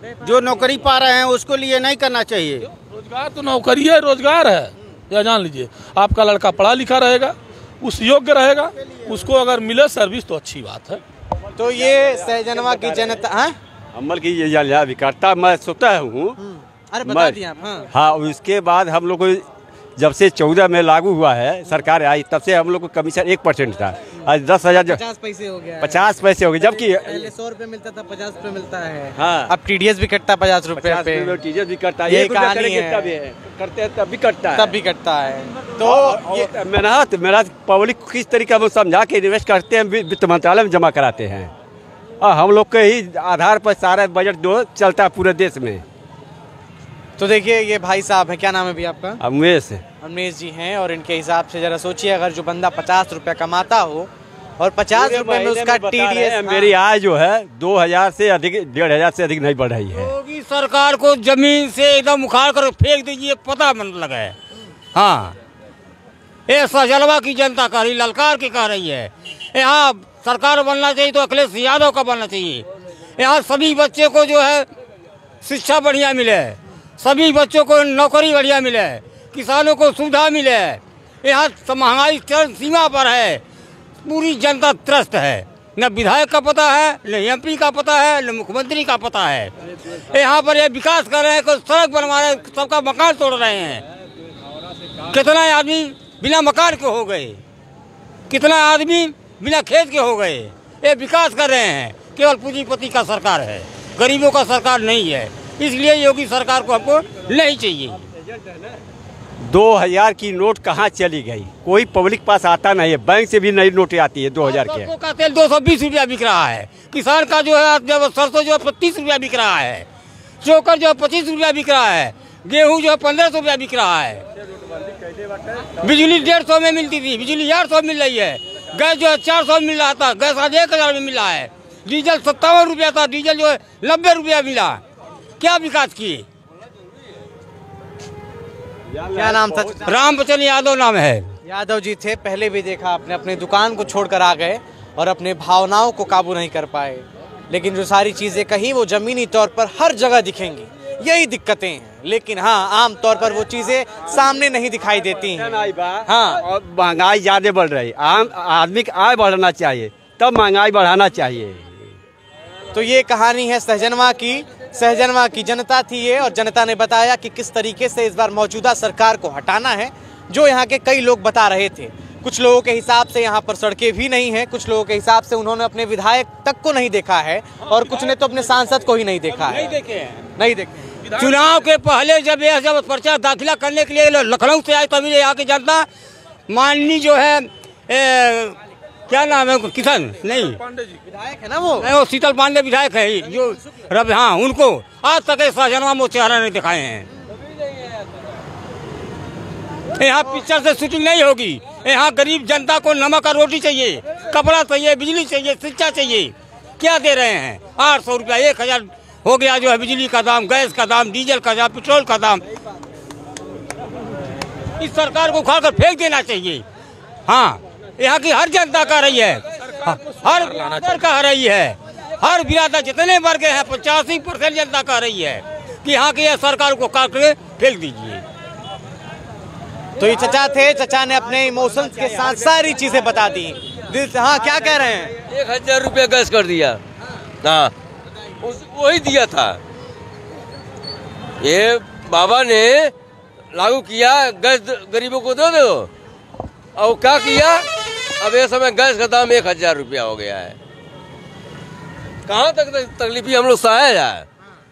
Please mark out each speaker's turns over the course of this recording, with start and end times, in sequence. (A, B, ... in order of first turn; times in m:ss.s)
0:00.2-0:02.7 A
0:02.6-0:11.0 B
0:11.6-0:13.6 C
0:12.5-0:13.2 D
0:13.9-0:16.4 D
0:16.4-0:17.9 C
0:17.0-0:17.4 D
0:17.9-0:19.4 D
0:20.0-0:25.0 D
0:24.7-0:26.0 C
0:25.8-0:27.3 D
0:27.0-0:31.4 C
0:29.2-0:29.5 D
0:30.7-0:34.7 D
0:32.1-0:33.0 C
0:34.5-0:36.5 C
0:35.8-0:41.5 D
0:42.2-0:45.8 D
0:47.2-0:49.2 C
0:49.2-0:49.8 D
0:50.0-0:56.7 C
0:54.9-1:00.1 D
0:59.9-1:04.4 E
1:04.9-1:05.4 E
1:06.5-1:12.7 E
1:13.2-1:14.7 E
1:15.4-1:23.4 E
1:24.0-1:33.8 E
1:35.0-1:37.4 E
1:38.3-1:48.1 E
1:49.4-1:54.9 D
1:54.4-1:59.9 E
2:00.4-2:04.3 E
2:05.6-2:14.8 E
2:15.4-2:16.3 E
2:18.9-2:19.8 D
2:19.1-2:20.2 C
2:19.9-2:21.3 E
2:21.4-2:36.4 C
2:35.3-2:42.0 D
2:42.7-2:59.7 C
2:57.7-2:58.2 B
2:59.4-3:00.2 E
3:00.4-3:00.9 C
3:01.0-3:01.7 B
3:01.2-3:05.9 E
3:06.5-3:08.6 E
3:09.1-3:10.6 E
3:10.3-3:11.0 B
3:11.0-3:11.9 C
3:11.8-3:17.1 E
3:20.0-3:32.4 E
3:34.8-3:36.6 E
3:37.3-3:48.2 E
3:39.8-3:41.0 B
3:50.0-3:55.1 C
3:55.2-3:56.8 F
3:57.4-3:57.7 F
3:58.4-3:59.6 F
4:01.4-4:02.9 F
4:03.5-4:05.9 F
4:06.8-4:07.7 F
4:08.2-4:10.6 F
4:12.3-4:14.3 F